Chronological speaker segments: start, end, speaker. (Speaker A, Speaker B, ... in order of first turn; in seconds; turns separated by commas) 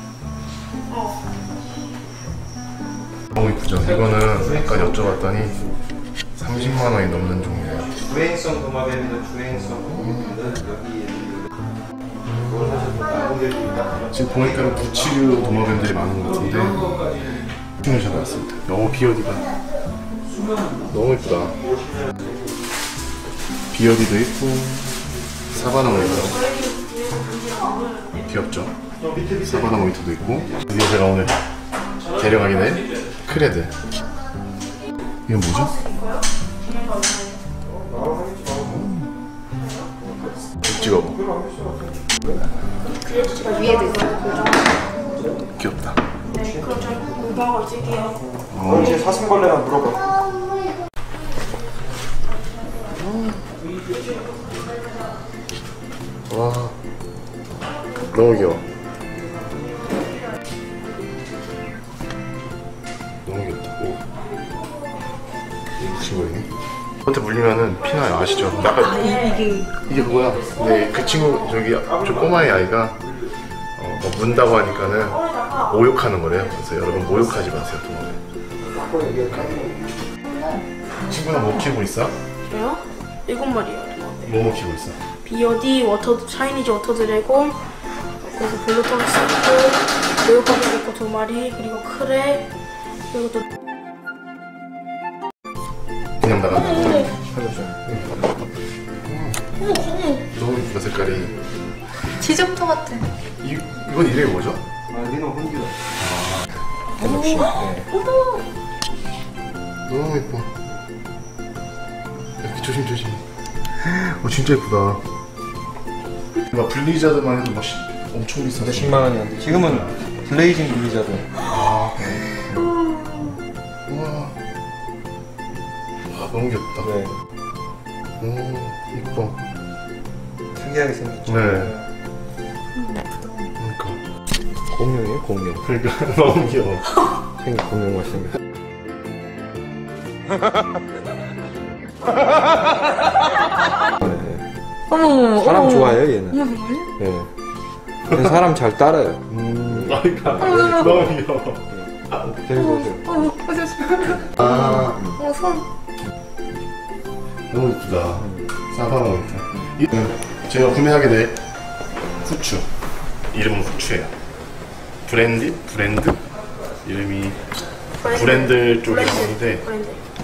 Speaker A: 0.9-1.2, Speaker B: 3.3-5.6, Speaker C: 3.8-5.7, Speaker B: 6.3-8.0, Speaker C: 6.5-7.0, Speaker C: 7.8-11.5, Speaker B: 9.9-10.3, Speaker B: 12.2-12.8, Speaker C: 12.4-15.7, Speaker B: 14.1-17.3, Speaker B: 17.8-19.5, Speaker B: 20.9-21.5, Speaker C: 21.6-22.6, Speaker B: 23.7-24.9, Speaker B: 25.5-26.4, Speaker C: 25.8-26.3, Speaker A: 25.9-28.4, Speaker B: 28.3-28.7, Speaker C: 29.0-30.7, Speaker B: 29.4-31.4, Speaker B: 32.0-33.7, Speaker B: 35.3-35.7, Speaker A: 35.5-37.4, Speaker C: 37.6-38.9, Speaker A: 39.6-39.9, Speaker B: 40.6-41.2, Speaker C: 40.6-42.4, Speaker A: 42.9-44.7, Speaker D: 43.4-44.5, Speaker B: 45.5-46.0, Speaker A: 46.3-48.2, Speaker C: 46.3-47.1, Speaker B: 48.5-49.0, Speaker C: 48.6-50.2, Speaker A: 48.7-49.2, Speaker B: 53.0-53.4, Speaker B: 56.3-56.8, Speaker B: 58.1-58.6, Speaker B: 63.2-64.0, Speaker B: 65.8-66.5, Speaker B: 67.0-69.2, Speaker A: 68.1-71.7, Speaker D: 68.6-69.7, Speaker B: 69.8-73.0, Speaker C: 71.8-73.3, Speaker B: 73.8-78.2, Speaker A: 74.5-76.7, Speaker C: 78.7-79.9, Speaker B: 79.2-79.7, Speaker B: 81.0-82.1, Speaker A: 82.5-84.5, Speaker B: 84.2-85.0, Speaker A: 85.2-87.6, Speaker A: 88.3-92.5, Speaker A: 93.1-93.4, Speaker B: 96.2-97.1, Speaker D: 96.6-97.1, Speaker C: 97.2-98.2, Speaker B: 99.0-99.4, Speaker D: 99.6-100.2, Speaker B: 100.3-101.3, Speaker D: 102.2-103.0, Speaker B: 103.4-104.6, Speaker C: 104.9-105.8, Speaker B: 106.0-106.4, Speaker C: 107.0-107.9, Speaker D: 107.0-108.4, Speaker B: 109.9-110.5, Speaker B: 112.4-113.2, Speaker B: 113.8-115.0, Speaker B: 116.5-120.0, Speaker C: 118.6-121.3, Speaker B: 121.4-122.2, Speaker D: 122.5-123.3, Speaker B: 123.9-124.3, Speaker B: 126.1-126.9, Speaker C: 126.8-127.1, Speaker B: 128.2-129.3, Speaker C: 130.5-131.9, Speaker B: 131.3-131.7, Speaker D: 132.7-133.5, Speaker B: 133.6-134.0, Speaker C: 134.7-135.6, Speaker B: 135.6-136.9, Speaker C: 137.4-138.3, Speaker C: 144.0-144.4, Speaker D: 144.9-146.9, Speaker C: 145.3-146.4, Speaker C: 147.0-147.3, Speaker C: 148.1-151.1, Speaker B: 149.5-152.2, Speaker D: 150.4-151.0, Speaker C: 151.7-153.3, Speaker D: 152.6-155.7, Speaker B: 154.4-154.9, Speaker C: 154.8-155.2, Speaker B: 157.5-161.3, Speaker B: 162.2-162.7, Speaker B: 163.3-164.1, Speaker B: 165.1-166.2, Speaker B: 166.8-167.4, Speaker A: 168.0-170.0, Speaker B: 168.0-169.7